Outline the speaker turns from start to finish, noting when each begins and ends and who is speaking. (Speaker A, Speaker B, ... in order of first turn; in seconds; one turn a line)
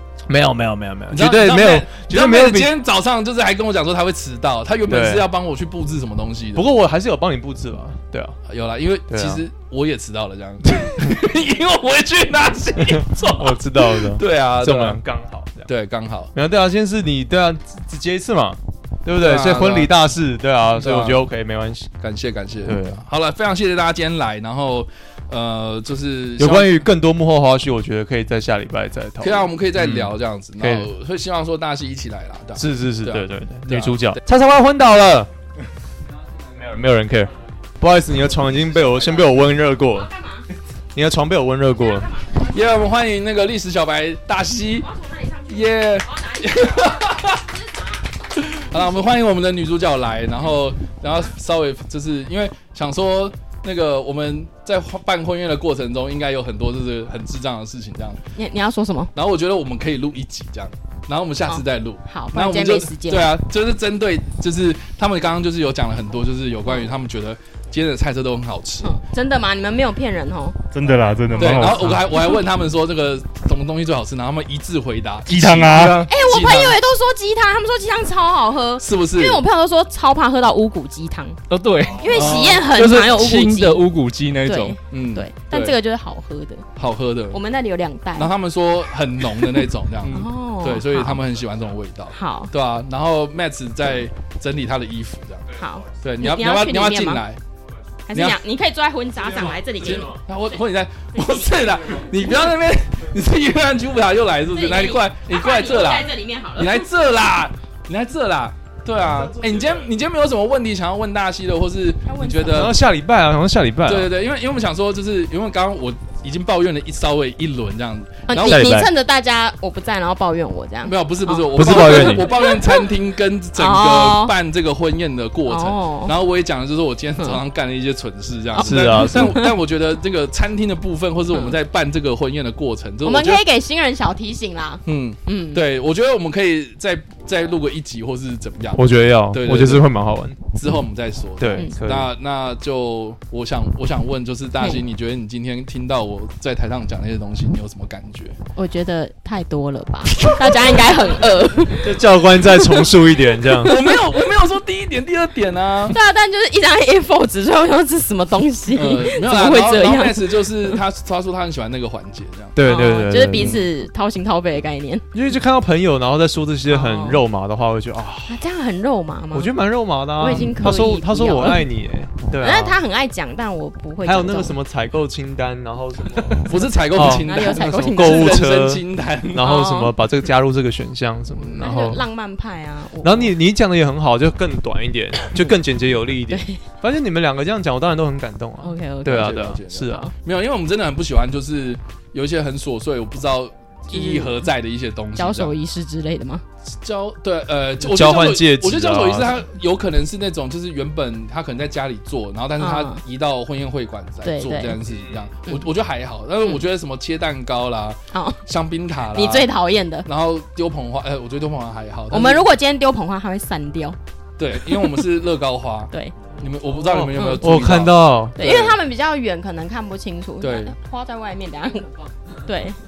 Speaker A: 0.3-2.8
Speaker B: 1.1-6.7
Speaker A: 4.9-5.3
Speaker A: 6.5-8.4
Speaker B: 8.5-15.0
Speaker A: 9.1-9.4
Speaker A: 10.7-11.1
Speaker A: 12.8-15.7
Speaker B: 15.7-16.3
Speaker A: 16.3-21.9
Speaker B: 19.2-19.9
Speaker B: 20.8-21.3
Speaker B: 22.0-26.9
Speaker A: 22.6-23.0
Speaker A: 26.4-30.9
Speaker B: 29.2-34.2
Speaker A: 32.5-35.3
Speaker A: 36.5-40.1
Speaker C: 39.9-40.4
Speaker A: 40.9-42.1
Speaker C: 41.8-42.5
Speaker B: 42.4-44.9
Speaker C: 44.8-48.0
Speaker B: 45.4-47.4
Speaker B: 48.4-58.2
Speaker C: 58.4-59.1
Speaker B: 59.1-69.0
Speaker C: 61.5-63.4
Speaker C: 68.8-70.6
Speaker D: 70.7-72.1
Speaker B: 71.3-76.8
Speaker C: 71.4-72.4
Speaker D: 75.3-76.1
Speaker E: 75.7-76.1
Speaker C: 76.1-81.4
Speaker B: 78.8-79.4
Speaker E: 81.5-84.8
Speaker C: 82.0-83.9
Speaker B: 82.0-82.7
Speaker C: 84.4-86.7
Speaker B: 84.9-85.8
Speaker B: 86.8-87.4
Speaker C: 87.3-88.3
Speaker B: 88.1-97.4
Speaker C: 90.1-91.2
Speaker C: 92.1-92.5
Speaker C: 95.5-97.2
Speaker C: 98.1-100.2
Speaker B: 98.1-98.4
Speaker B: 99.7-112.8
Speaker C: 104.4-106.9
Speaker C: 112.0-112.6
Speaker A: 112.4-114.1
Speaker B: 113.8-118.7
Speaker C: 118.3-122.9
Speaker A: 118.4-118.9
Speaker B: 120.8-133.4
Speaker A: 121.5-122.3
Speaker C: 123.5-124.3
Speaker C: 125.5-126.1
Speaker C: 128.5-129.6
Speaker A: 128.6-129.5
Speaker C: 133.0-135.6
Speaker B: 134.8-139.9
Speaker A: 138.8-140.5
Speaker B: 140.5-148.4
Speaker A: 141.4-142.1
Speaker C: 148.5-151.9
Speaker B: 150.1-150.8
Speaker A: 151.8-153.8
Speaker C: 152.6-152.8
Speaker B: 153.6-156.0
Speaker C: 153.8-154.0
Speaker C: 155.9-160.8
Speaker B: 158.7-162.6
Speaker A: 162.6-163.6
Speaker C: 162.6-165.0
Speaker A: 165.1-168.4
Speaker C: 166.7-167.2
Speaker C: 168.3-169.5
Speaker A: 169.3-172.8
Speaker C: 170.2-171.7
Speaker C: 172.4-174.6
Speaker A: 174.0-182.0
Speaker B: 176.4-179.5
Speaker C: 177.2-178.4
Speaker C: 179.4-179.9
Speaker C: 181.5-183.3
Speaker A: 183.0-190.1
Speaker C: 186.3-186.6
Speaker C: 188.6-190.1
Speaker B: 189.0-195.5
Speaker C: 193.9-194.5
Speaker C: 195.2-196.4
Speaker B: 196.8-209.5
Speaker A: 197.8-199.4
Speaker C: 202.6-203.0
Speaker C: 204.2-204.8
Speaker C: 208.1-208.4
Speaker C: 209.1-210.1
Speaker B: 210.0-212.5
Speaker C: 212.1-214.0
Speaker B: 214.4-218.8
Speaker C: 214.6-215.1
Speaker C: 215.9-216.2
Speaker A: 216.8-218.4
Speaker C: 217.1-217.5
Speaker C: 218.3-221.9
Speaker B: 220.4-220.7
Speaker C: 222.4-222.8